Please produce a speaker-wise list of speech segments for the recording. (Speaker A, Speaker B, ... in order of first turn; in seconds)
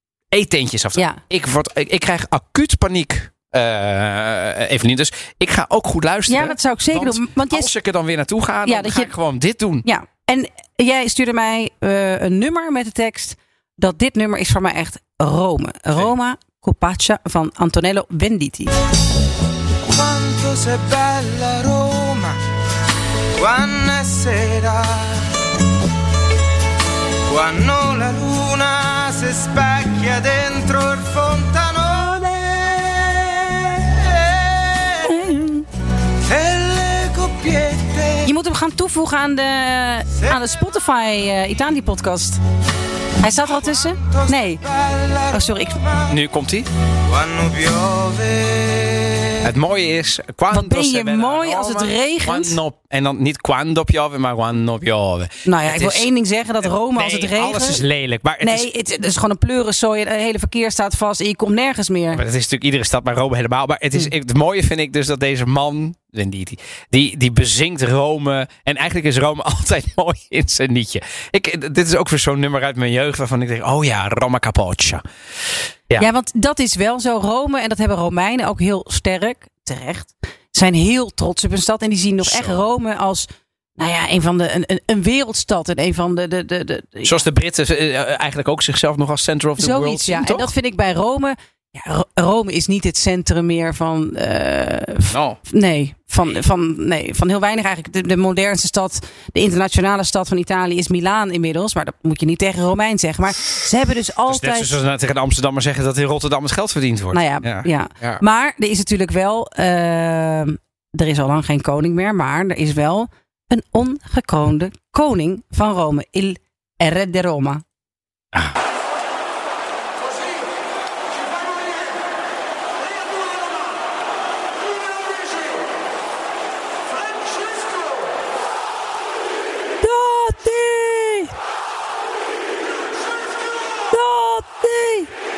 Speaker A: 0.3-9.9, 46.1-46.7, 49.4-56.1, 56.6-58.7, 62.1-75.0, 82.2-82.6, 87.0-90.5, 95.1-95.4, 104.3-108.2
Speaker B: 6.3-7.7, 8.7-9.1, 9.8-18.7, 35.0-35.6, 38.2-42.4, 43.2-44.6, 45.3-45.8, 50.5-52.6, 55.5-57.8, 58.4-62.2, 76.0-87.2, 89.6-104.8, 107.1-117.6, 129.8-131.3, 133.9-135.1
Speaker C: 19.9-22.4, 23.4-25.2, 27.3-35.2, 36.2-38.3, 43.7-46.1, 47.1-49.5